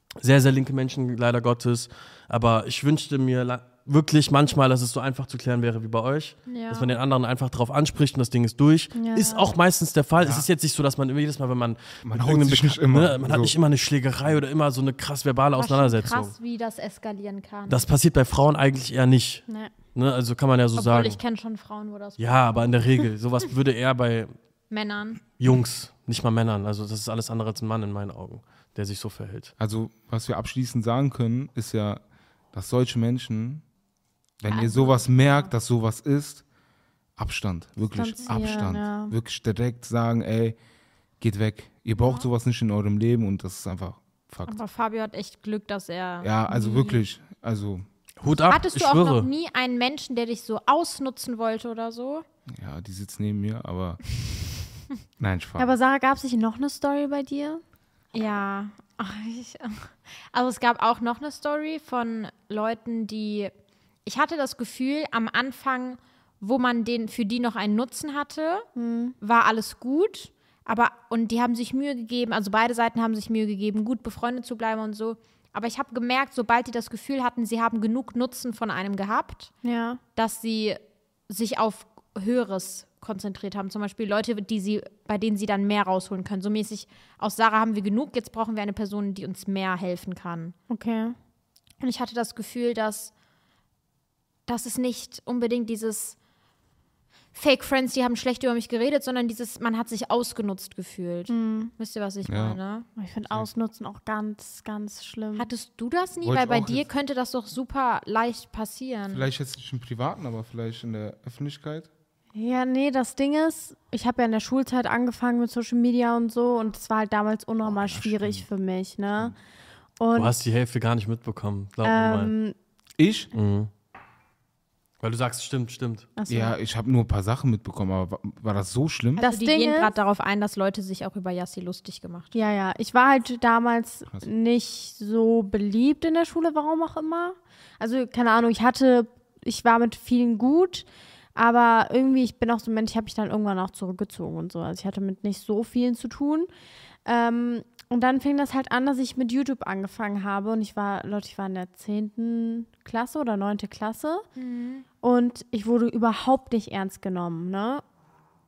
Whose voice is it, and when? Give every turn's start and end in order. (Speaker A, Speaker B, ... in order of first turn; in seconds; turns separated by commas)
Speaker A: 0.2-16.3, Speaker B: 6.5-6.9, Speaker C: 8.9-9.5, Speaker D: 10.2-10.5, Speaker D: 12.0-13.6, Speaker B: 15.6-17.9, Speaker A: 17.7-21.2, Speaker B: 20.8-23.0, Speaker A: 22.2-24.4, Speaker B: 24.7-25.2, Speaker A: 25.4-29.5, Speaker D: 29.6-33.7, Speaker D: 34.4-36.5, Speaker B: 34.5-34.8, Speaker C: 34.5-34.9, Speaker D: 37.2-40.6, Speaker C: 37.9-39.1, Speaker B: 38.3-38.7, Speaker D: 41.2-44.6, Speaker B: 42.0-42.3, Speaker B: 44.5-46.3, Speaker D: 46.2-47.9, Speaker C: 46.5-47.0, Speaker A: 48.2-49.3, Speaker B: 48.5-52.2, Speaker D: 52.5-54.0, Speaker D: 55.2-55.8, Speaker C: 55.6-57.6, Speaker B: 58.1-63.5, Speaker B: 64.0-68.7, Speaker C: 68.8-69.2, Speaker B: 69.2-79.5, Speaker C: 79.6-80.0, Speaker B: 80.2-90.5, Speaker C: 90.7-91.2, Speaker B: 91.8-93.1, Speaker B: 94.5-96.2, Speaker B: 97.3-102.9, Speaker C: 101.3-101.7, Speaker D: 102.3-102.6, Speaker C: 103.0-105.5, Speaker B: 105.4-109.3, Speaker D: 106.2-106.9, Speaker D: 109.1-111.9, Speaker C: 112.3-119.4, Speaker D: 117.7-118.5, Speaker C: 120.0-120.3, Speaker A: 120.1-122.3, Speaker C: 121.8-122.5, Speaker D: 123.0-123.3, Speaker A: 123.3-123.7, Speaker A: 125.0-126.1, Speaker C: 126.2-126.6, Speaker D: 126.3-129.2, Speaker B: 129.2-132.3, Speaker C: 129.2-129.9, Speaker C: 132.3-146.5, Speaker C: 147.1-154.3, Speaker B: 154.4-154.8, Speaker C: 155.0-157.8